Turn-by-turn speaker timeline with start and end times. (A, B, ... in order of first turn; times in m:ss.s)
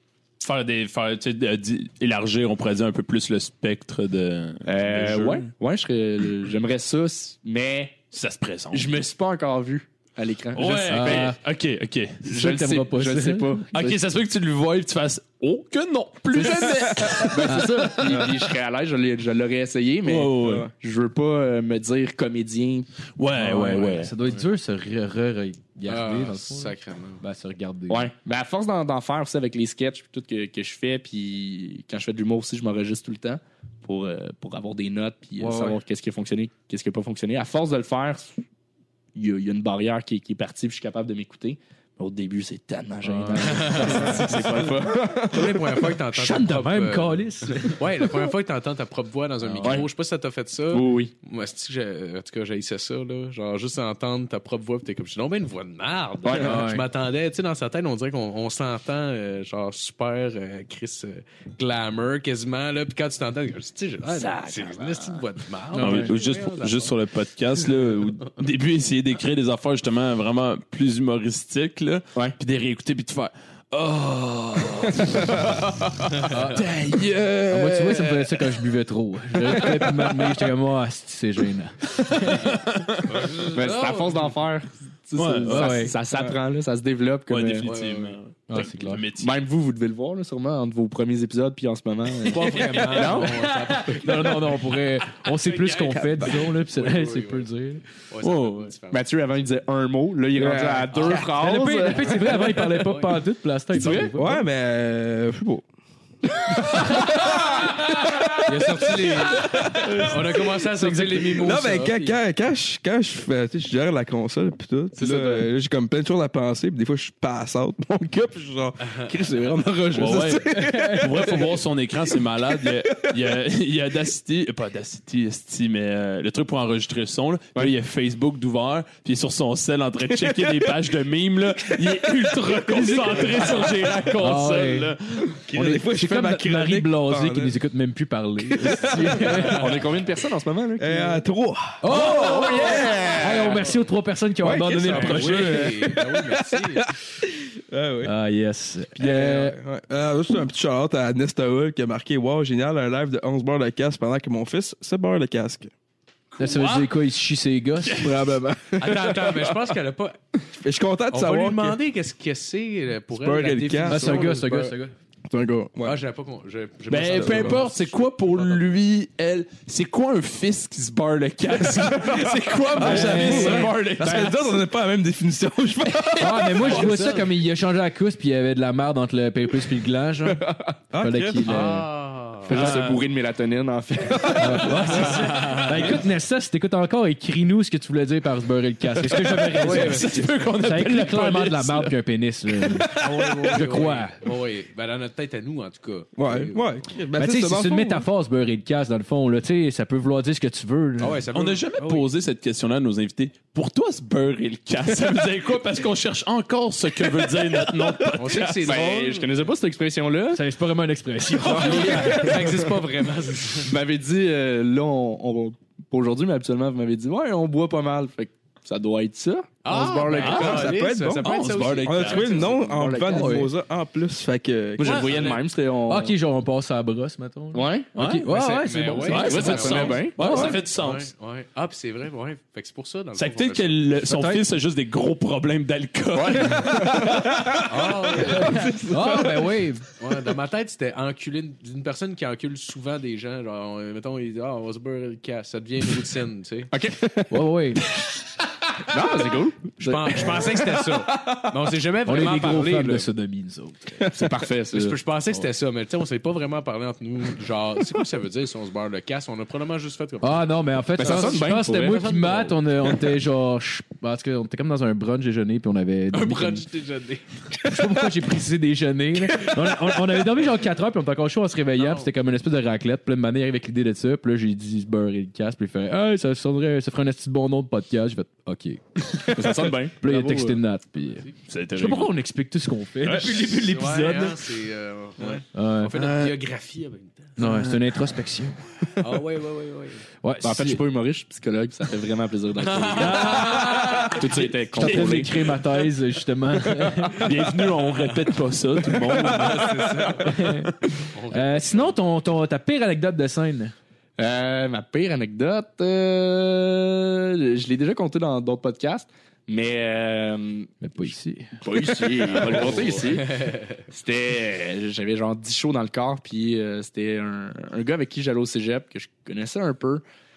0:00.4-0:05.4 A
0:04.6-0:08.0 B
0:08.1-0:09.0 A
0:08.7-0:11.3 B
0:10.5-0:12.3 A
0:10.9-0:11.4 C
0:12.2-0:13.6 C
0:12.3-0:14.0 B
0:13.7-0:18.4 A
0:16.3-0:22.9 B
0:17.5-0:17.9 C
0:20.0-0:20.7 A
0:20.4-0:20.7 D
0:23.2-0:24.1 A
0:23.3-0:28.1 C
0:25.9-0:27.2 E
0:27.9-0:38.4 B
0:35.4-0:35.8 C
0:39.1-0:45.8 B
0:43.0-0:44.4 C
0:43.5-0:44.3 E
0:45.2-1:06.9 E
0:46.1-0:47.8 C
0:49.5-0:49.8 C
0:49.6-0:49.9 B
0:50.7-0:51.1 B
0:56.2-0:56.6 B
0:56.4-0:56.8 C
1:04.1-1:05.2 B
1:05.7-1:06.1 C
1:05.8-1:15.7 A
1:16.3-1:16.6 C
1:16.5-1:18.0 A
1:17.5-1:22.6 C
1:22.2-1:23.4 A
1:23.1-1:24.3 E
1:23.5-1:27.7 B
1:25.2-1:25.9 A
1:25.5-1:26.0 C
1:27.3-1:29.3 A
1:27.6-1:28.2 E
1:28.5-1:29.0 C
1:29.2-1:33.5 B
1:32.3-1:34.7 E
1:32.3-1:37.8 C
1:35.2-1:37.5 E
1:38.0-1:39.0 E
1:38.2-1:38.7 A
1:38.9-1:42.5 B
1:40.4-1:41.1 D
1:40.9-1:41.3 E
1:41.0-1:44.4 C
1:42.0-1:43.2 E
1:43.7-1:44.1 B
1:44.1-1:45.6 D
1:46.4-1:50.6 D
1:48.5-1:49.1 C
1:48.5-1:52.2 E
1:50.7-1:51.3 C
1:51.2-2:01.4 D
1:55.0-1:55.4 C
1:59.9-2:15.4 A
2:00.0-2:01.4 C
2:10.2-2:10.6 D
2:11.8-2:14.1 D
2:14.2-2:14.9 C
2:15.4-2:17.5 D
2:15.5-2:19.6 C
2:18.5-2:19.6 D
2:19.2-2:21.2 B
2:19.4-2:19.8 E
2:20.8-2:23.6 D
2:21.8-2:25.7 C
2:22.2-2:23.6 B
2:24.4-2:28.1 D
2:24.8-2:26.9 E
2:28.0-2:29.6 C
2:29.0-2:35.7 D
2:36.3-2:36.9 A
2:36.4-2:38.1 C
2:37.8-2:38.4 A
2:38.0-2:39.7 D
2:38.8-2:40.2 E
2:40.5-2:41.8 D
2:41.1-2:44.8 E
2:43.1-2:44.3 D
2:43.8-2:44.9 C
2:45.3-2:46.0 D
2:45.8-2:48.7 E
2:46.9-2:54.2 A
2:47.1-2:47.6 D
2:51.7-2:57.1 D
2:52.8-2:53.7 C
2:54.0-2:54.4 B
2:56.2-3:00.4 C
2:56.6-2:57.3 E
3:00.4-3:00.7 B
3:00.9-3:01.7 D
3:01.0-3:01.9 C
3:01.4-3:02.6 E
3:02.4-3:04.9 B
3:02.5-3:03.0 A
3:04.2-3:05.9 D
3:04.3-3:14.2 C
3:04.9-3:05.9 E
3:09.4-3:11.9 A
3:09.5-3:10.3 E
3:12.9-3:16.9 E
3:16.2-3:18.0 D
3:17.1-3:21.2 C
3:21.0-3:22.0 E
3:21.3-3:28.7 A
3:28.2-3:29.3 E
3:28.6-3:30.4 B
3:30.3-3:32.4 C
3:31.4-3:32.8 D
3:31.5-3:33.7 E
3:31.9-3:32.3 B
3:33.6-3:40.7 B
3:39.6-3:42.5 E
3:40.2-3:42.4 A
3:40.2-3:45.3 D
3:42.3-3:43.5 B
3:43.1-3:43.5 C
3:44.8-3:46.2 B
3:44.8-3:45.4 E
3:45.9-3:50.6 C
3:47.5-3:48.0 B
3:48.0-3:48.3 A
3:48.2-3:53.8 E
3:49.0-3:51.1 A
3:49.2-3:50.5 B
3:53.1-3:57.9 A
3:54.0-3:54.4 C
3:56.1-3:56.9 E
3:56.8-3:59.6 D
3:57.6-3:58.7 E
3:58.3-3:59.8 C
4:00.0-4:06.7 E
4:06.7-4:07.4 B
4:07.3-4:07.8 C
4:08.8-4:10.6 B
4:09.8-4:13.1 E
4:10.3-4:10.8 D
4:12.0-4:14.1 C
4:14.0-4:15.0 B
4:14.7-4:22.6 E
4:20.2-4:26.6 C
4:21.0-4:22.2 B
4:26.1-4:27.4 E
4:27.6-4:39.5 C
4:31.8-4:32.1 E
4:39.3-4:40.6 B
4:40.0-4:44.4 C
4:41.5-4:42.1 A
4:43.0-4:43.7 A
4:43.5-4:47.4 E
4:45.5-4:45.9 C
4:45.9-4:46.4 A
4:47.4-4:48.6 C
4:47.4-4:47.7 A
4:49.0-4:50.0 E
4:50.2-4:50.8 C
4:50.4-4:55.4 B
4:52.6-4:54.2 E
4:53.0-4:57.5 C
4:54.8-4:55.2 A
4:57.2-4:59.9 A
4:59.1-5:00.4 E
5:00.2-5:00.7 C
5:00.4-5:00.7 A
5:01.1-5:02.0 E
5:01.3-5:03.7 C
5:04.2-5:10.8 B
5:10.8-5:11.6 C
5:11.6-5:20.0 B
5:12.4-5:13.8 E